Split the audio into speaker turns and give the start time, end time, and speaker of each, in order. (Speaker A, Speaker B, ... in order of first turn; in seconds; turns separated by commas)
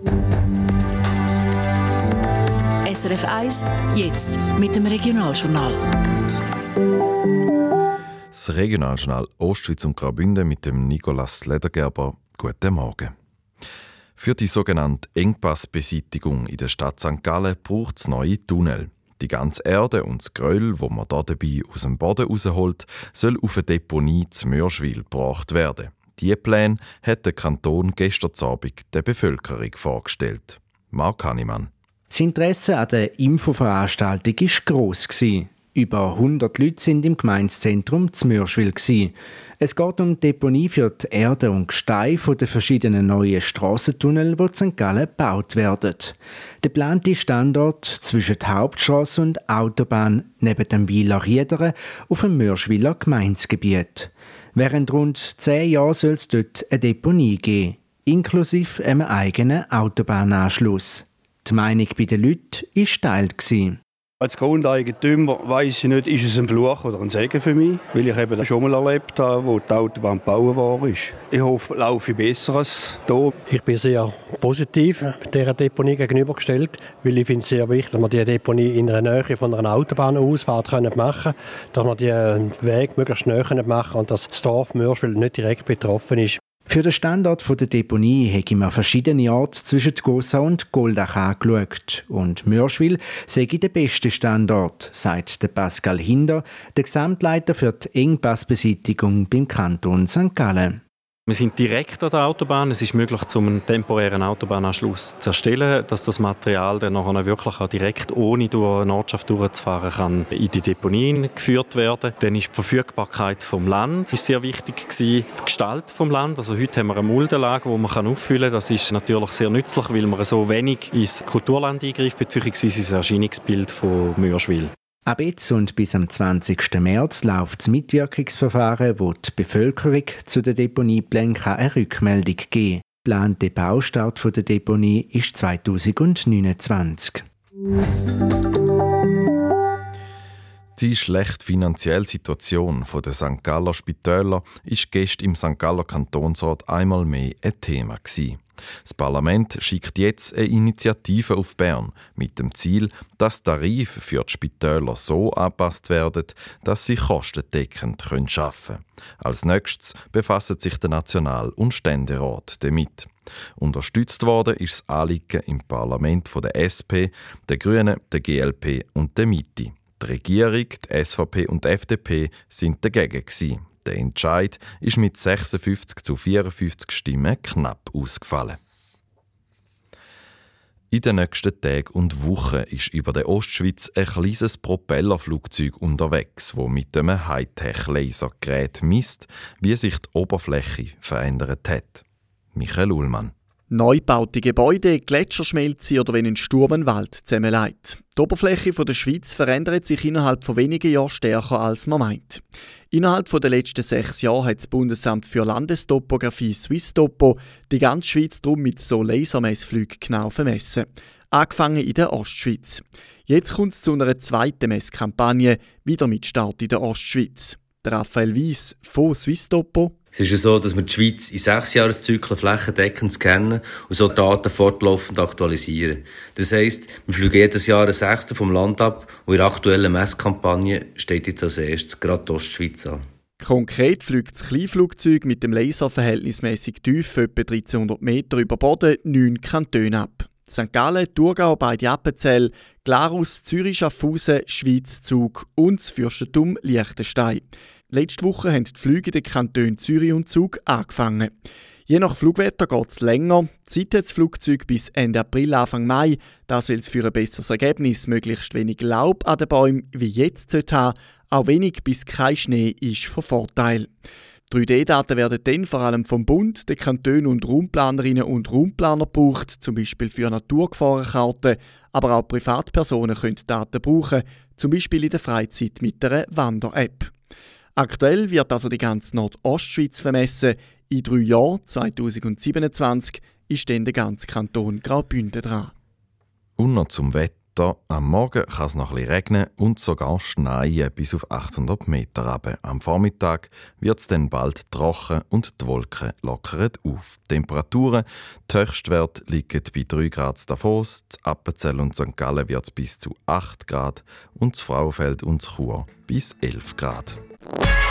Speaker A: 2.9-5.8, Speaker B: 8.3-13.1, Speaker B: 14.2-31.7, Speaker C: 32.1-63.8, Speaker D: 64.2-73.3, Speaker E: 73.5-86.4, Speaker C: 86.7-100.8, Speaker F: 101.3-124.7, Speaker C: 125.1-137.2, Speaker B: 140.8-178.6, Speaker B: 180.9-192.0, Speaker B: 192.6-193.3, Speaker G: 193.7-219.9, Speaker H: 220.2-233.0, Speaker G: 233.4-251.3, Speaker G: 251.9-263.9, Speaker G: 264.5-277.1, Speaker G: 277.8-285.7, Speaker B: 286.6-307.2